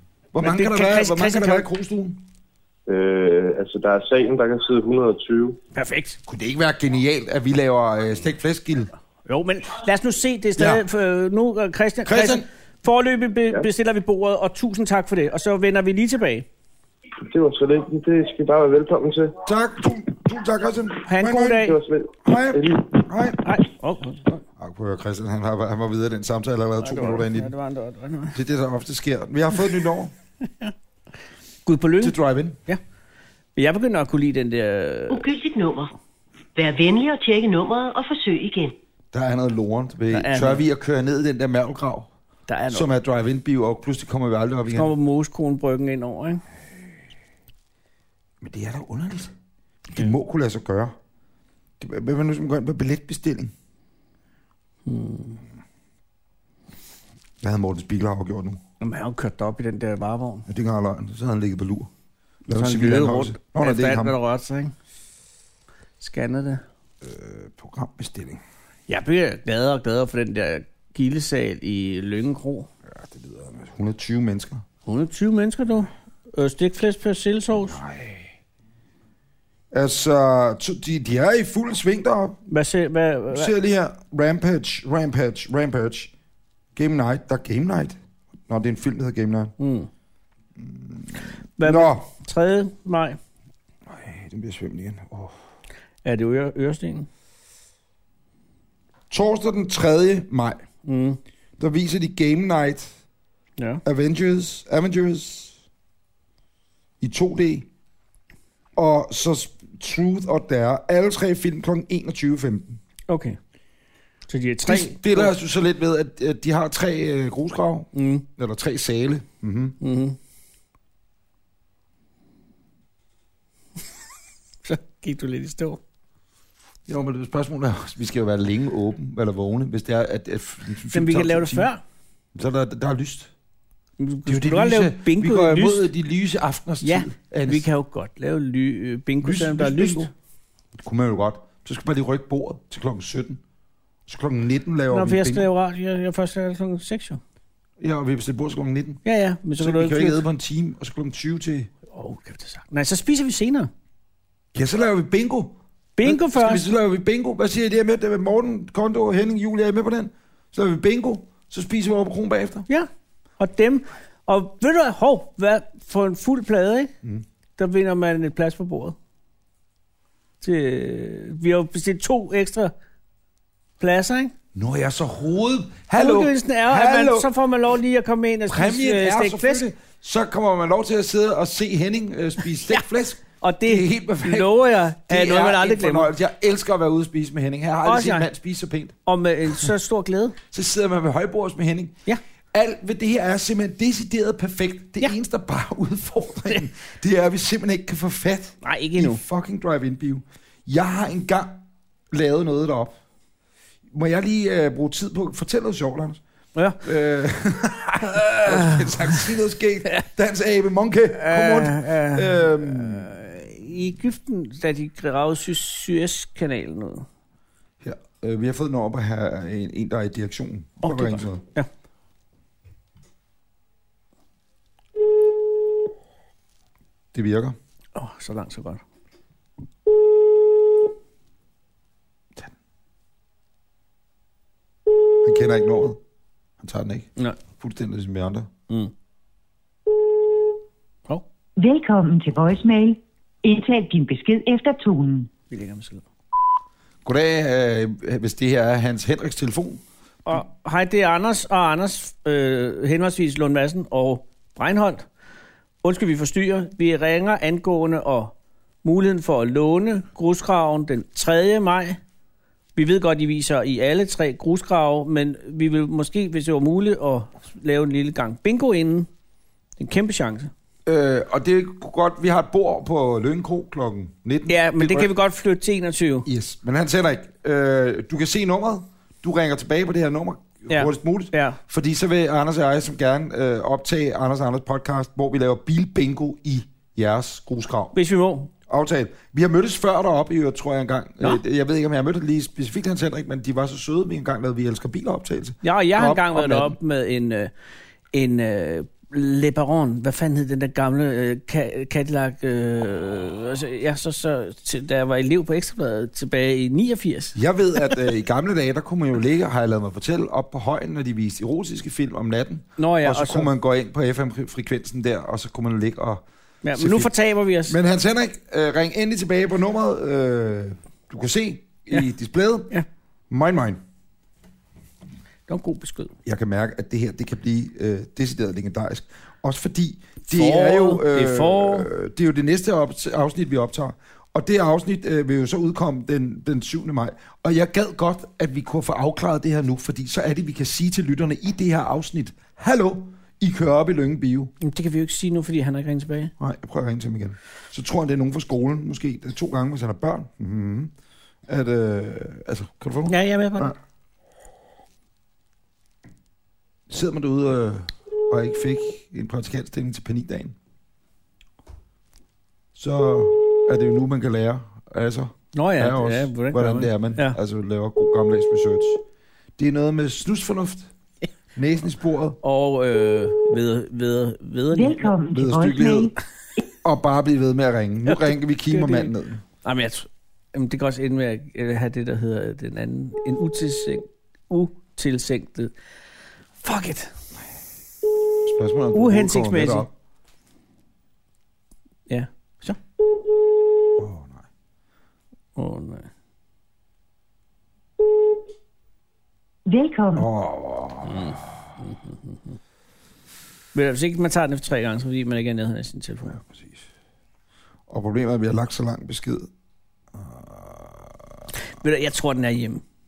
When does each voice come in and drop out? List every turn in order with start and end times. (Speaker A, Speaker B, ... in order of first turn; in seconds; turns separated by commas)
Speaker A: 0.3-2.2, Speaker B: 0.4-1.7, Speaker C: 2.9-5.6, Speaker B: 5.7-6.2, Speaker A: 6.3-8.9, Speaker B: 9.3-16.4, Speaker A: 10.6-10.8, Speaker A: 12.1-12.4, Speaker C: 17.2-19.3, Speaker A: 19.4-21.7, Speaker B: 21.1-21.8, Speaker C: 21.5-22.9, Speaker A: 22.2-23.5, Speaker B: 23.4-24.4, Speaker A: 24.6-27.5, Speaker B: 26.8-28.4, Speaker A: 28.3-30.1, Speaker B: 30.4-30.7, Speaker B: 31.6-32.8, Speaker A: 32.0-32.6, Speaker B: 33.5-35.2, Speaker D: 35.1-35.9, Speaker D: 36.5-38.7, Speaker A: 39.1-42.1, Speaker B: 40.1-40.6, Speaker B: 42.5-42.9, Speaker A: 42.7-44.9, Speaker B: 44.7-46.4, Speaker A: 48.4-49.3, Speaker A: 49.9-51.0, Speaker A: 51.8-53.5, Speaker B: 54.9-55.4, Speaker A: 57.4-58.6, Speaker B: 58.8-60.5, Speaker A: 60.5-61.9, Speaker A: 62.5-64.2, Speaker B: 62.5-64.7, Speaker B: 66.0-66.6, Speaker A: 67.0-68.4, Speaker B: 68.9-72.7, Speaker A: 72.9-74.6, Speaker B: 74.9-77.8, Speaker A: 77.7-78.2, Speaker A: 79.7-82.4, Speaker B: 82.5-83.5, Speaker A: 83.3-86.1, Speaker A: 86.7-89.5, Speaker B: 89.6-89.9, Speaker A: 90.6-92.1, Speaker B: 91.6-93.2, Speaker A: 93.9-95.3, Speaker B: 96.0-97.1, Speaker A: 99.1-100.6, Speaker B: 100.8-101.2, Speaker A: 101.6-102.9, Speaker A: 103.8-105.6, Speaker A: 107.0-107.7, Speaker A: 108.8-112.8, Speaker B: 113.1-113.4, Speaker B: 114.3-115.3, Speaker A: 114.6-119.8, Speaker B: 117.9-118.3, Speaker B: 119.8-120.2, Speaker B: 124.6-125.8, Speaker A: 126.9-131.7, Speaker B: 130.9-131.8, Speaker A: 132.3-133.3, Speaker B: 134.0-135.9, Speaker A: 134.3-137.6, Speaker B: 136.8-140.1, Speaker A: 139.2-140.1, Speaker A: 140.8-143.4, Speaker A: 144.1-145.5, Speaker B: 144.9-147.2, Speaker A: 147.8-149.0, Speaker B: 149.1-150.2, Speaker A: 149.6-151.7, Speaker B: 151.9-153.7, Speaker A: 154.5-162.7, Speaker B: 155.9-156.7, Speaker B: 162.7-166.9, Speaker B: 167.6-168.9, Speaker B: 170.4-172.7, Speaker B: 173.8-174.3, Speaker A: 174.6-177.3, Speaker B: 175.9-179.7, Speaker A: 178.5-188.9, Speaker B: 183.4-186.1, Speaker B: 187.8-188.3, Speaker B: 189.1-190.4, Speaker A: 190.5-192.0, Speaker A: 192.5-203.0, Speaker B: 198.6-199.2, Speaker A: 203.9-206.2, Speaker B: 206.6-206.8, Speaker A: 206.8-213.1, Speaker B: 208.3-209.2, Speaker B: 211.1-217.1, Speaker A: 217.8-221.4, Speaker B: 220.8-221.7, Speaker A: 227.1-227.6, Speaker B: 227.9-228.8, Speaker A: 235.2-236.0, Speaker A: 236.6-238.5, Speaker E: 241.6-245.3, Speaker B: 245.5-246.0, Speaker A: 247.0-249.8, Speaker B: 250.3-255.1, Speaker B: 255.8-262.0, Speaker B: 262.8-269.1, Speaker B: 269.8-270.5, Speaker A: 270.9-275.1, Speaker B: 274.5-276.3, Speaker A: 276.3-287.9, Speaker B: 280.7-281.6, Speaker B: 287.9-288.5, Speaker A: 288.7-296.8, Speaker B: 295.6-297.5, Speaker B: 298.1-308.0, Speaker A: 307.3-316.2, Speaker B: 312.8-313.5, Speaker B: 316.6-317.8, Speaker A: 316.8-317.1, Speaker A: 317.7-322.7, Speaker A: 323.3-323.8, Speaker B: 325.5-326.1, Speaker A: 326.2-344.5, Speaker B: 330.3-331.9, Speaker B: 344.6-346.3, Speaker A: 346.4-350.9, Speaker A: 351.5-353.8, Speaker B: 353.1-353.7, Speaker A: 356.9-360.6, Speaker A: 362.7-369.0, Speaker B: 365.5-367.4, Speaker A: 369.6-370.9, Speaker A: 371.6-372.4, Speaker B: 372.4-375.1, Speaker E: 374.7-376.1, Speaker A: 375.3-376.1, Speaker A: 376.8-379.4, Speaker B: 378.1-379.1, Speaker B: 379.6-385.7, Speaker B: 386.6-387.1, Speaker A: 388.4-389.9, Speaker B: 388.9-389.9, Speaker B: 392.1-392.8, Speaker A: 393.9-394.4, Speaker B: 395.6-396.1, Speaker E: 399.7-400.3, Speaker A: 400.1-401.2, Speaker B: 401.1-402.6, Speaker B: 403.7-406.4, Speaker A: 406.3-406.8, Speaker A: 407.9-409.5, Speaker A: 410.1-411.2, Speaker B: 411.6-412.8